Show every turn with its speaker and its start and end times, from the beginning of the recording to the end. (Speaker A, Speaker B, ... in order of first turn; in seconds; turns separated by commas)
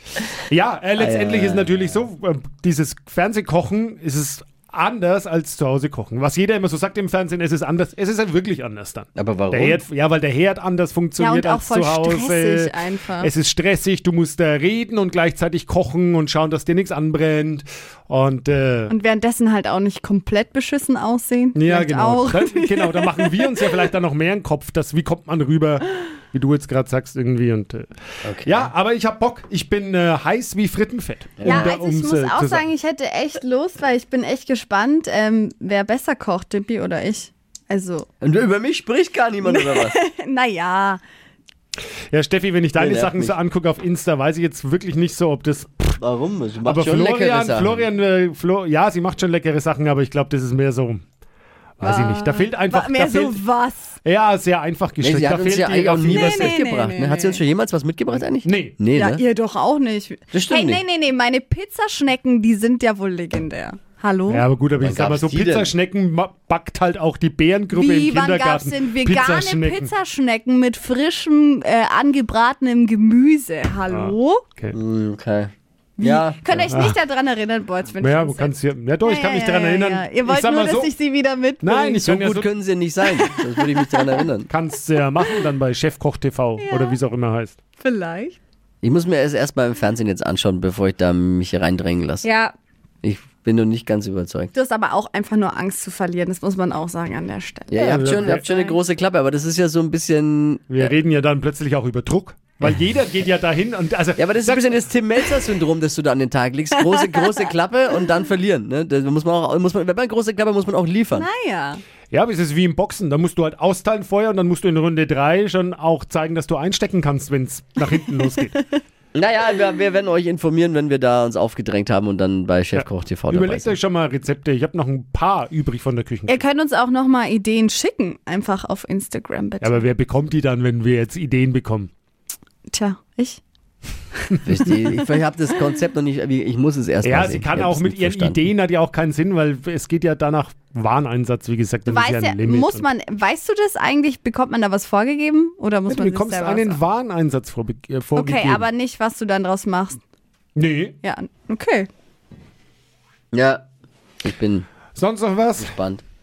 Speaker A: 0.5-18.9, Speaker B: 1.0-2.0, Speaker B: 9.2-9.8, Speaker C: 11.2-13.3, Speaker C: 18.9-23.9, Speaker A: 21.6-27.9, Speaker B: 28.2-28.7, Speaker A: 28.4-32.7, Speaker B: 31.4-31.7, Speaker C: 31.4-38.1, Speaker B: 38.2-40.0, Speaker C: 39.4-41.0, Speaker A: 42.1-46.0, Speaker B: 42.8-43.4, Speaker B: 46.0-47.9, Speaker A: 46.6-51.0, Speaker A: 51.8-53.4, Speaker C: 51.8-54.0, Speaker A: 54.0-56.6, Speaker B: 55.0-59.2, Speaker C: 56.1-57.4, Speaker A: 58.4-58.8, Speaker C: 58.9-64.5, Speaker B: 60.3-60.8, Speaker A: 64.3-69.9, Speaker B: 64.8-65.7, Speaker C: 67.7-74.5, Speaker A: 73.9-74.8, Speaker B: 74.7-76.8, Speaker C: 76.0-82.1, Speaker A: 76.7-77.0, Speaker A: 78.0-80.9, Speaker A: 81.6-82.5, Speaker B: 82.0-84.5, Speaker C: 83.1-84.2, Speaker A: 84.5-87.6, Speaker C: 86.6-87.0, Speaker C: 87.8-88.4, Speaker B: 88.8-92.3, Speaker C: 92.2-92.5, Speaker B: 93.0-94.5, Speaker C: 94.5-98.8, Speaker B: 97.7-100.9, Speaker A: 97.7-98.4, Speaker A: 100.7-104.7, Speaker B: 104.2-111.3, Speaker C: 106.9-107.4, Speaker C: 111.1-111.8, Speaker A: 112.1-118.6, Speaker B: 119.1-123.8, Speaker A: 122.7-126.4, Speaker C: 126.3-129.8, Speaker A: 129.6-131.9, Speaker C: 132.7-133.4, Speaker C: 134.2-135.1, Speaker B: 134.5-138.4, Speaker A: 137.0-142.9, Speaker C: 141.9-146.8, Speaker A: 145.9-148.7, Speaker C: 148.2-150.0, Speaker A: 150.6-151.0, Speaker C: 151.0-151.9, Speaker B: 153.3-153.6, Speaker B: 154.2-154.7, Speaker A: 154.9-155.8, Speaker B: 155.6-156.0